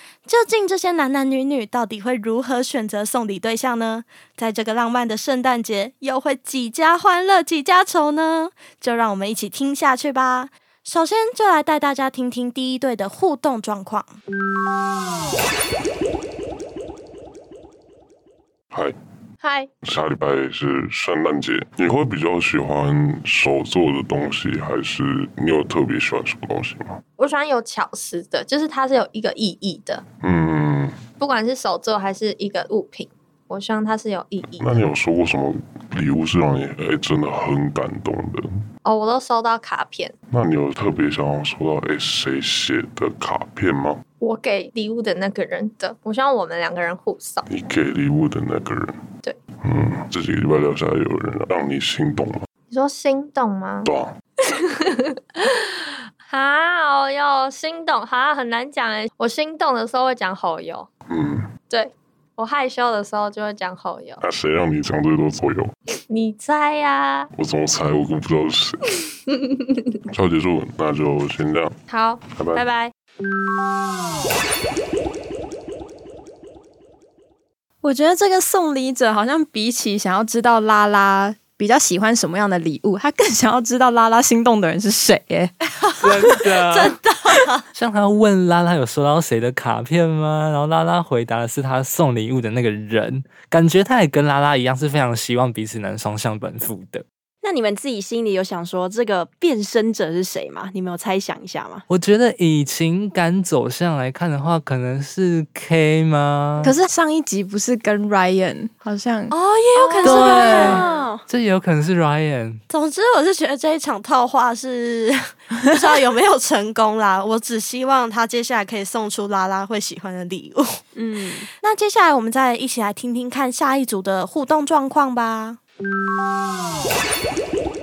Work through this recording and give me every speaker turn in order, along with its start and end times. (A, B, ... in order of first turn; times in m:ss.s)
0:00.3-0:14.1 A
0:19.4-0:19.7 B
0:19.8-0:27.0 C
0:27.2-0:30.0 B
0:30.2-0:31.0 C
0:31.2-0:34.4 B
0:34.6-0:38.5 C
0:38.8-0:40.1 B
0:40.3-0:44.0 C
0:44.2-0:47.4 B
0:47.5-0:49.0 C
0:49.6-0:52.5 C
0:52.7-0:53.9 B
0:53.8-0:54.1 C
0:54.7-0:55.7 B
0:56.3-1:00.9 B
1:01.1-1:01.5 C
1:01.7-1:04.2 B
1:04.2-1:05.7 C
1:06.1-1:07.3 B
1:07.3-1:08.8 C
1:10.1-1:11.7 C
1:11.9-1:12.9 B
1:12.3-1:12.6 C
1:17.8-1:25.5 D
1:26.0-1:27.0 E
1:26.6-1:27.6 A
1:27.8-1:37.0 E
1:37.4-1:41.8 F
1:41.9-1:46.8 E
1:46.6-1:49.4 D
1:49.3-1:50.9 A
1:49.8-1:51.2 F
1:50.0-1:52.6 E
1:52.7-2:00.8 A
2:01.0-2:01.5 F
2:01.6-2:05.6 A